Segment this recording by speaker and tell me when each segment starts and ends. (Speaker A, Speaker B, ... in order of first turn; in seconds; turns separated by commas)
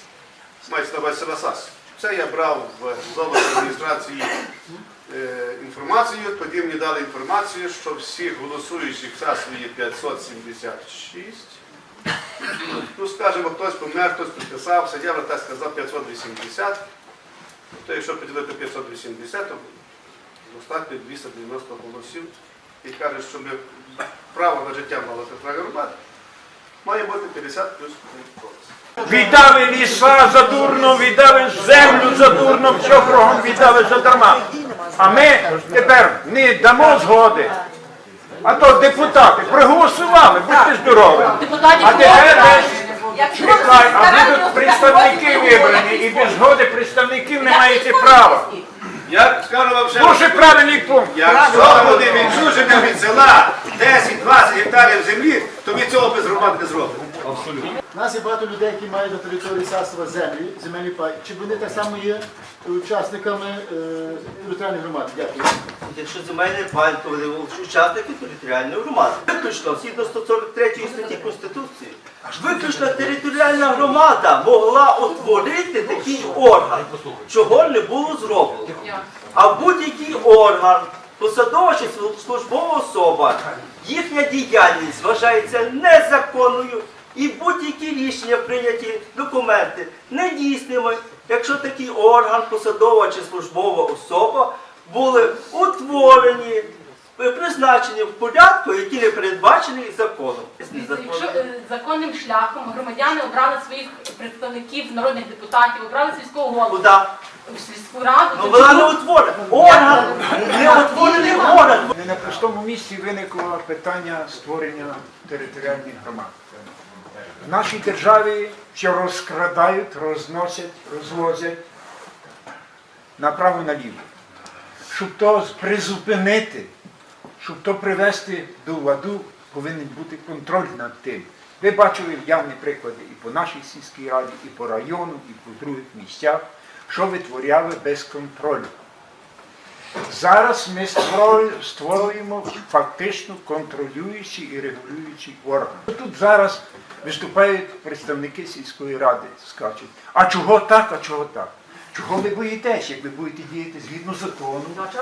Speaker A: 0.6-4.3, Speaker A: 5.1-11.6, Speaker A: 12.9-16.8, Speaker A: 17.8-19.7, Speaker A: 20.4-23.6, Speaker A: 24.3-25.9, Speaker A: 26.8-28.5, Speaker B: 29.0-34.4, Speaker B: 35.0-37.5, Speaker B: 38.4-42.8, Speaker C: 41.3-46.4, Speaker B: 43.3-48.5, Speaker C: 47.4-48.3, Speaker A: 49.1-57.0, Speaker B: 49.9-53.0, Speaker D: 57.9-65.6, Speaker E: 65.8-78.8, Speaker C: 70.8-71.2, Speaker B: 72.3-73.0, Speaker E: 79.3-96.7, Speaker E: 97.2-101.4, Speaker C: 100.6-106.8, Speaker E: 106.7-107.1, Speaker C: 107.5-109.0, Speaker E: 108.3-111.9, Speaker C: 109.5-111.6, Speaker B: 110.4-111.2, Speaker B: 111.8-116.4, Speaker B: 117.4-121.6, Speaker B: 123.2-124.1, Speaker B: 124.9-126.7, Speaker B: 127.4-138.7, Speaker B: 140.1-154.8